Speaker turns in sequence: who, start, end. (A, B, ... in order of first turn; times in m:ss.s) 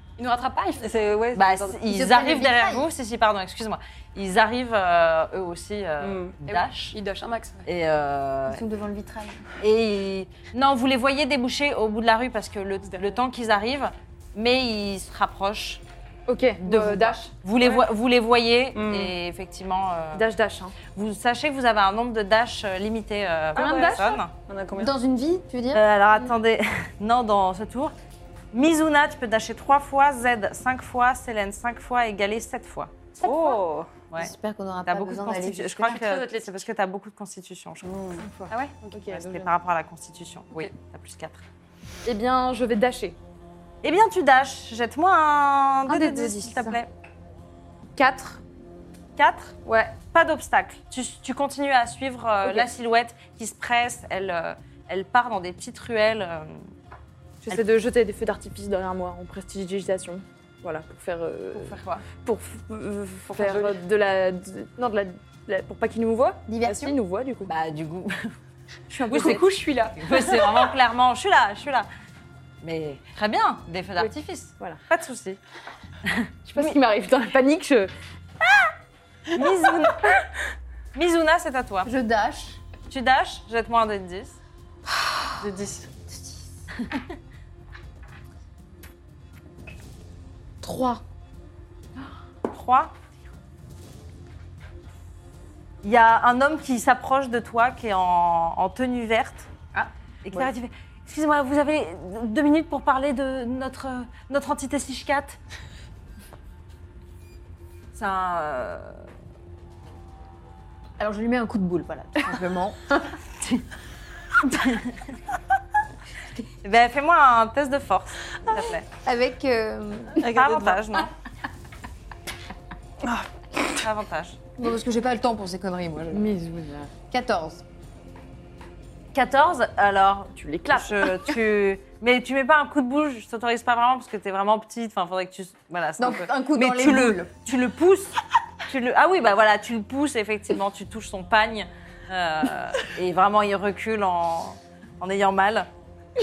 0:00.2-0:01.0 A
0:00.8-0:01.7 B
0:01.3-0:07.0 C
0:01.8-0:02.9 D
0:06.0-0:06.4 B
0:06.5-0:07.7 A
0:07.6-0:08.6 C
0:08.5-0:09.5 D
0:09.6-0:15.8 C
0:16.3-0:17.3 E
0:16.6-0:20.3 C
0:17.6-0:17.9 B
0:18.8-0:19.1 B
0:20.1-0:20.8 E
0:21.0-0:24.3 C
0:23.6-0:24.2 E
0:24.4-0:25.0 B
0:24.7-0:25.8 D
0:25.7-0:27.9 C
0:28.5-0:33.6 C
0:33.2-0:34.0 B
0:34.2-0:36.0 D
0:34.8-0:37.9 C
0:35.9-0:36.7 A
0:37.8-0:38.3 B
0:38.2-0:39.5 E
0:38.5-0:39.0 A
0:39.1-0:41.4 C
0:42.1-0:43.2 E
0:43.8-0:46.9 C
0:45.9-0:46.8 E
0:48.0-0:48.4 E
0:49.2-0:56.7 C
0:49.6-0:50.0 E
0:57.4-1:07.5 E
1:01.5-1:02.0 C
1:03.4-1:03.8 B
1:06.5-1:07.0 D
1:07.5-1:08.4 C
1:08.9-1:10.6 E
1:08.9-1:11.9 C
1:12.6-1:15.4 C
1:14.0-1:14.8 E
1:16.0-1:16.8 C
1:16.5-1:17.9 E
1:19.3-1:20.2 C
1:20.9-1:21.9 C
1:21.8-1:22.6 D
1:22.9-1:24.4 C
1:25.4-1:25.9 B
1:26.1-1:26.6 D
1:30.6-1:31.0 D
1:30.7-1:31.0 E
1:32.5-1:32.9 C
1:35.8-1:39.5 C
1:39.7-1:40.5 D
1:40.2-1:45.4 C
1:47.9-1:49.1 C
1:51.0-1:53.2 D
1:54.4-1:55.1 C
1:56.6-1:58.9 C
1:59.0-2:00.3 D
2:00.2-2:01.1 C
2:00.2-2:01.0 B
2:03.0-2:03.3 B
2:03.7-2:04.4 C
2:04.6-2:06.3 D
2:06.1-2:06.9 E
2:07.1-2:07.6 D
2:09.1-2:18.2 C
2:10.4-2:11.3 E
2:16.0-2:17.3 D
2:18.7-2:25.7 C